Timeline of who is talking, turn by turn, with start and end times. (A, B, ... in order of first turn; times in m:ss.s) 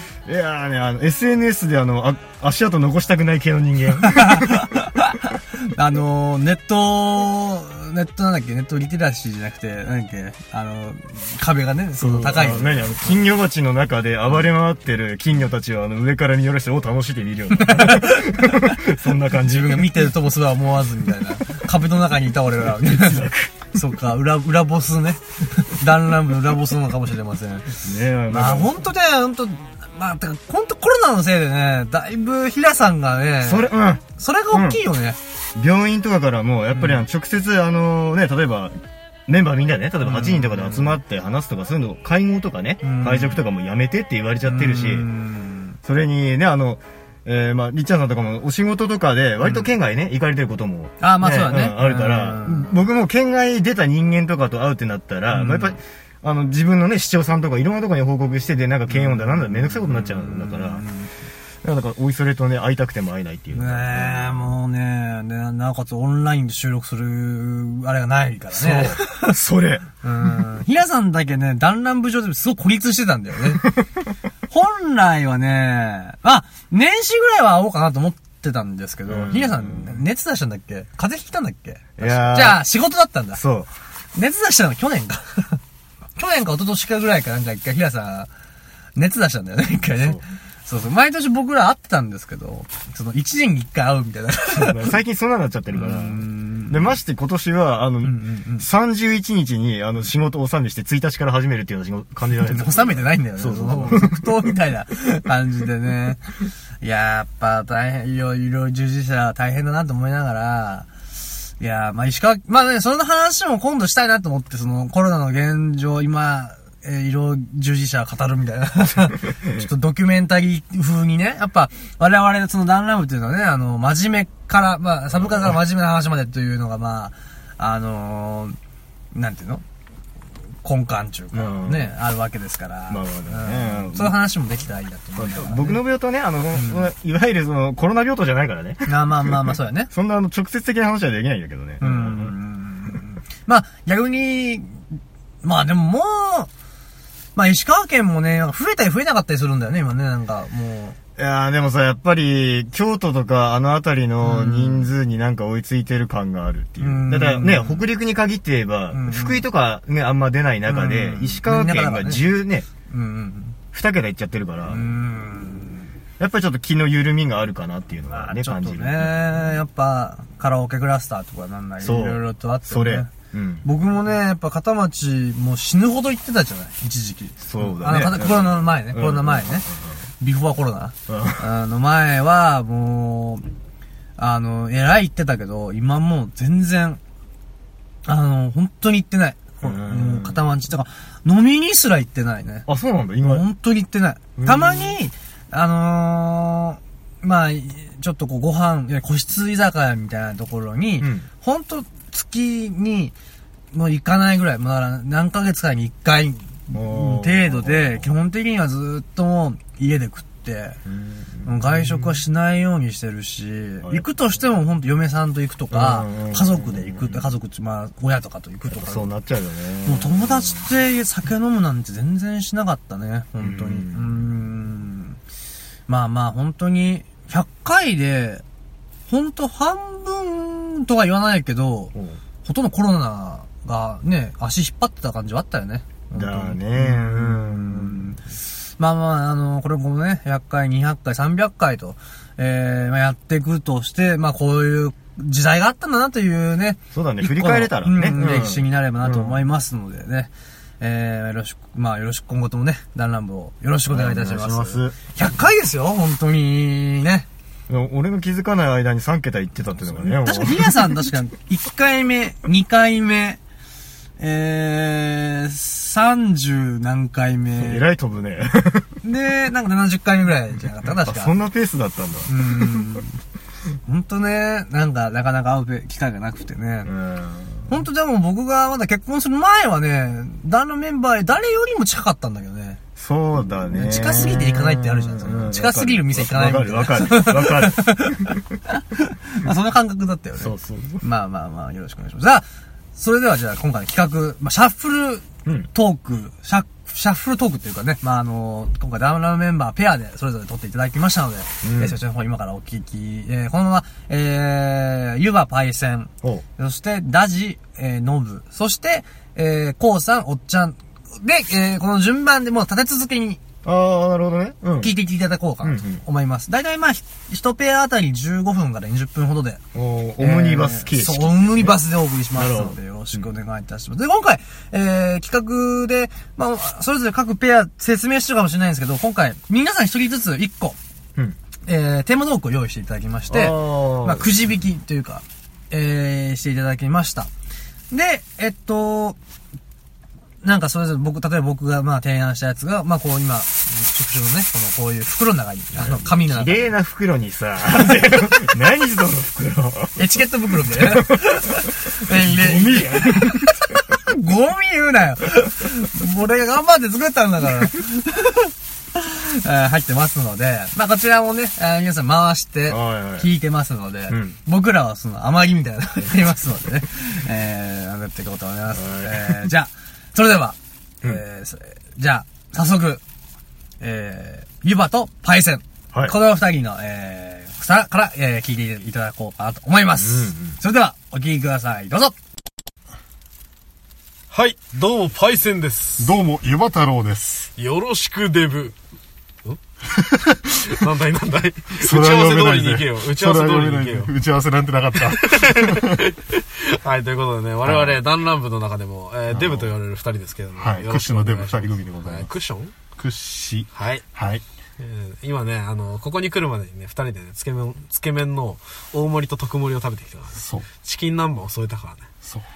0:00.2-0:04.8 A
0:04.0-0:13.2 B
0:12.0-0:20.1 A
0:17.6-0:18.7 B
0:19.4-0:27.7 B
0:22.7-0:23.5 A
0:27.8-0:28.7 A
0:28.3-0:35.2 B
0:33.4-0:34.8 A
0:35.6-0:38.7 A
0:36.7-0:37.0 B
0:39.3-0:45.1 A
0:40.0-0:41.0 B
0:42.8-0:43.4 B
0:44.4-0:45.8 B
0:45.8-1:00.8 A
0:51.0-0:52.8 B
0:55.3-0:55.8 B
0:58.9-1:01.1 B
1:01.6-1:04.5 A
1:03.5-1:09.4 B
1:08.5-1:10.4 A
1:10.0-1:13.6 B
1:14.5-1:23.4 B
1:19.1-1:20.0 A
1:22.0-1:22.6 A
1:23.3-1:23.7 A
1:24.1-1:25.6 B
1:26.2-1:28.3 B
1:29.0-1:34.9 B
1:34.5-1:44.3 A
1:35.7-1:36.9 B
1:38.0-1:38.6 B
1:42.4-1:46.3 B
1:46.8-1:50.9 B
1:51.6-2:08.6 B
2:05.1-2:05.6 A
2:09.1-2:09.6 B
2:10.6-2:15.8 B
2:11.3-2:12.0 A
2:12.9-2:14.2 A
2:15.2-2:19.4 A
2:16.5-2:16.9 B
2:18.9-2:19.9 B
2:19.9-2:22.3 A
2:21.8-2:24.8 B
2:25.4-2:26.5 B
2:27.4-2:31.0 B
2:31.2-2:42.7 A
2:34.2-2:34.9 B
2:36.8-2:37.8 B
2:38.9-2:39.4 B
2:40.6-2:42.3 B
2:42.9-2:43.6 B
2:43.7-2:44.9 A
2:44.6-2:45.9 B
2:46.2-2:49.4 A
2:48.1-2:53.1 B
2:51.8-2:53.6 A
2:53.6-2:59.7 B
2:57.4-3:00.0 A
3:00.2-3:03.4 B
3:01.1-3:01.4 A
3:04.2-3:07.0 B
3:08.0-3:12.7 B
3:09.6-3:10.4 A
3:12.7-3:13.4 A
3:13.2-3:23.1 B
3:14.4-3:14.9 A
3:21.0-3:21.3 A
3:23.7-3:30.8 B
3:26.7-3:28.1 A
3:30.8-3:32.2 A
3:31.4-3:39.1 B
3:35.7-3:37.3 A
3:38.7-3:40.6 A
3:39.8-3:45.2 B
3:43.4-3:44.2 A
3:45.9-3:48.4 B
3:49.1-4:10.3 B
3:51.9-3:52.2 A
3:56.1-3:58.1 A
4:06.9-4:09.3 A
4:10.8-4:17.3 B
4:13.9-4:15.3 A
4:17.7-4:21.0 A
4:20.0-4:23.4 B
4:24.2-4:27.8 B
4:27.5-4:28.9 A
4:29.0-4:31.4 B
4:30.8-4:32.8 A
4:32.3-4:33.2 B
4:33.8-4:36.9 B
4:36.8-4:37.7 A
4:37.7-4:42.8 B
4:43.0-4:48.4 A
4:43.7-5:13.4 B
4:50.4-4:51.0 A
5:01.6-5:02.0 A
5:13.6-5:15.0 A
5:14.8-5:19.6 B
5:15.6-5:16.0 A
5:19.7-5:21.8 A
5:20.2-5:30.8 B
5:22.3-5:23.2 A
5:31.6-5:37.3 B
5:33.3-5:34.3 A
5:37.9-5:39.2 B
5:40.4-5:46.7 B
5:45.8-5:50.0 A
5:50.0-6:13.0 B
5:50.7-5:51.4 A
5:52.2-5:54.0 A
6:02.7-6:03.3 A
6:04.1-6:04.4 A
6:08.8-6:09.5 A
6:13.8-6:22.1 B
6:20.0-6:20.6 A
6:24.3-6:26.1 C
6:26.0-6:27.5 D
6:27.6-6:28.8 C
6:29.9-6:30.7 D
6:30.6-6:34.1 C
6:31.7-6:36.0 D
6:34.9-6:42.7 C
6:37.6-6:38.0 D
6:39.3-6:39.7 D
6:40.5-6:42.3 D
6:43.0-6:44.4 D
6:43.7-6:44.0 C
6:44.8-6:52.1 C
6:50.4-6:50.7 D